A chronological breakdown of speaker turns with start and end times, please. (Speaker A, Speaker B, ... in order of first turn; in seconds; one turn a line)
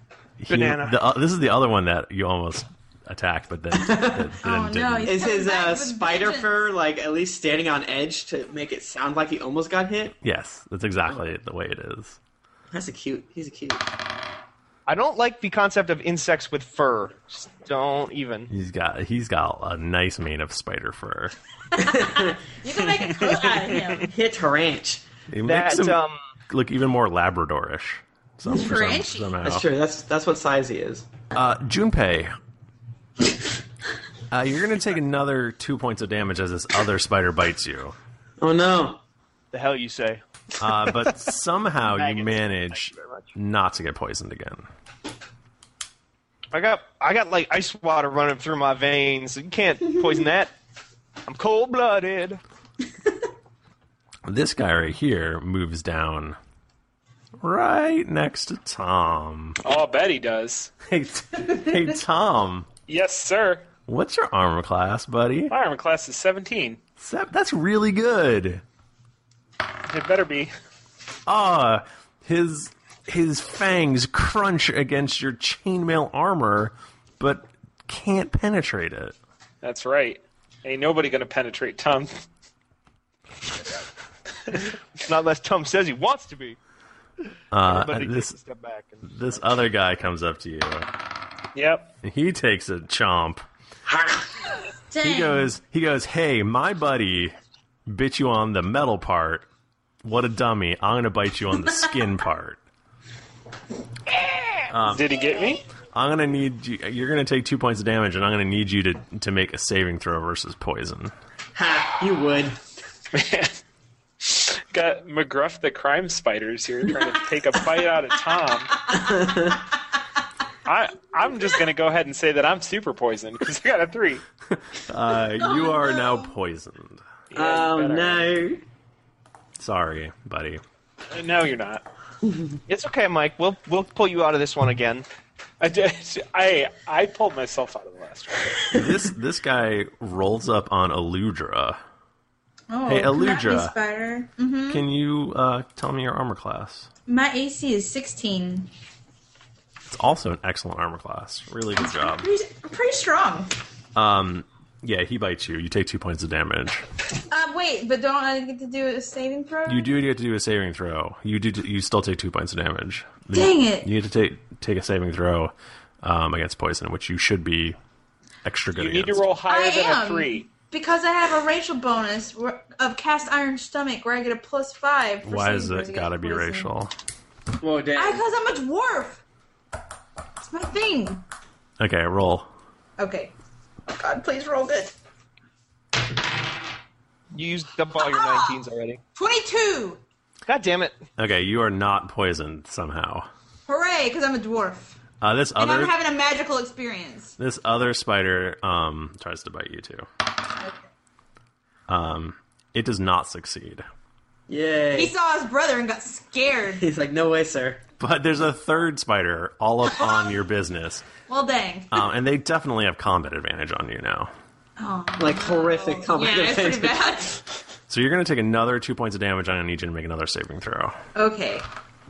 Speaker A: 0.4-5.2
Speaker B: 0.5-1.0
Speaker C: 3.7-4.3
Speaker D: 4.4-6.5
Speaker C: 5.1-10.2
Speaker A: 10.2-12.2
Speaker C: 12.7-13.8
Speaker B: 14.9-18.5
Speaker A: 18.5-21.3
Speaker C: 21.8-22.4
Speaker D: 22.6-24.1
Speaker C: 24.1-25.0
Speaker A: 25.3-29.6
Speaker B: 25.4-26.2
Speaker D: 28.5-29.3
Speaker C: 29.4-31.1
Speaker A: 31.3-32.3
Speaker A: 34.3-38.0
Speaker C: 38.4-39.0
Speaker B: 39.5-40.2
Speaker A: 40.6-44.7
Speaker B: 41.8-43.3
Speaker B: 46.5-50.5
Speaker B: 51.3-52.4
Speaker A: 54.2-56.4
Speaker A: 57.4-59.6
Speaker E: 59.6-60.7
Speaker A: 60.9-62.7
Speaker E: 62.9-63.7
Speaker A: 63.9-65.5
Speaker E: 65.5-66.8
Speaker A: 67.0-68.6
Speaker E: 69.9-70.5
Speaker A: 71.3-79.2
Speaker E: 79.6-82.2
Speaker B: 85.1-86.6
Speaker A: 87.5-88.4
Speaker B: 87.6-89.5
Speaker A: 89.0-90.9
Speaker E: 91.5-91.9
Speaker A: 92.0-93.4
Speaker D: 94.9-95.5
Speaker A: 95.0-97.3
Speaker A: 97.9-99.5
Speaker A: 100.0-102.6
Speaker A: 104.7-105.1
Speaker E: 104.9-105.6
Speaker A: 105.9-111.1
Speaker C: 111.5-112.6
Speaker E: 113.1-113.6
Speaker E: 114.2-118.7
Speaker C: 118.9-119.6
Speaker E: 120.7-124.2
Speaker A: 124.5-127.0
Speaker D: 125.4-126.3
Speaker E: 127.3-128.3
Speaker C: 127.3-128.6
Speaker A: 129.6-130.6
Speaker E: 131.1-131.8
Speaker B: 132.7-135.1
Speaker E: 135.6-138.6
Speaker A: 138.7-141.8
Speaker D: 142.7-144.8
Speaker A: 142.9-143.7
Speaker A: 144.7-146.9
Speaker D: 147.1-148.7
Speaker A: 149.9-152.3
Speaker D: 151.8-153.5
Speaker A: 153.9-156.8
Speaker D: 157.3-159.9
Speaker A: 159.7-167.8
Speaker D: 163.3-163.9
Speaker A: 168.4-169.3
Speaker E: 168.7-170.5
Speaker D: 169.5-176.7
Speaker A: 175.2-176.9
Speaker C: 177.6-178.2
Speaker D: 177.9-179.2
Speaker D: 180.4-181.2
Speaker A: 181.8-182.5
Speaker D: 183.0-183.3
Speaker D: 183.9-184.9
Speaker B: 187.3-189.0
Speaker D: 188.0-188.5
Speaker D: 189.2-190.0
Speaker B: 190.5-191.0
Speaker A: 191.2-193.3
Speaker D: 193.7-195.0
Speaker A: 195.2-195.9
Speaker D: 195.6-197.3
Speaker A: 197.4-200.1
Speaker A: 201.9-203.8
Speaker C: 204.5-205.1
Speaker D: 204.9-206.8
Speaker C: 206.8-207.8
Speaker A: 208.0-211.1
Speaker D: 210.0-210.3
Speaker D: 211.3-212.0
Speaker A: 211.9-214.3
Speaker D: 214.8-217.4
Speaker C: 215.2-217.2
Speaker A: 217.9-221.0
Speaker D: 221.2-221.7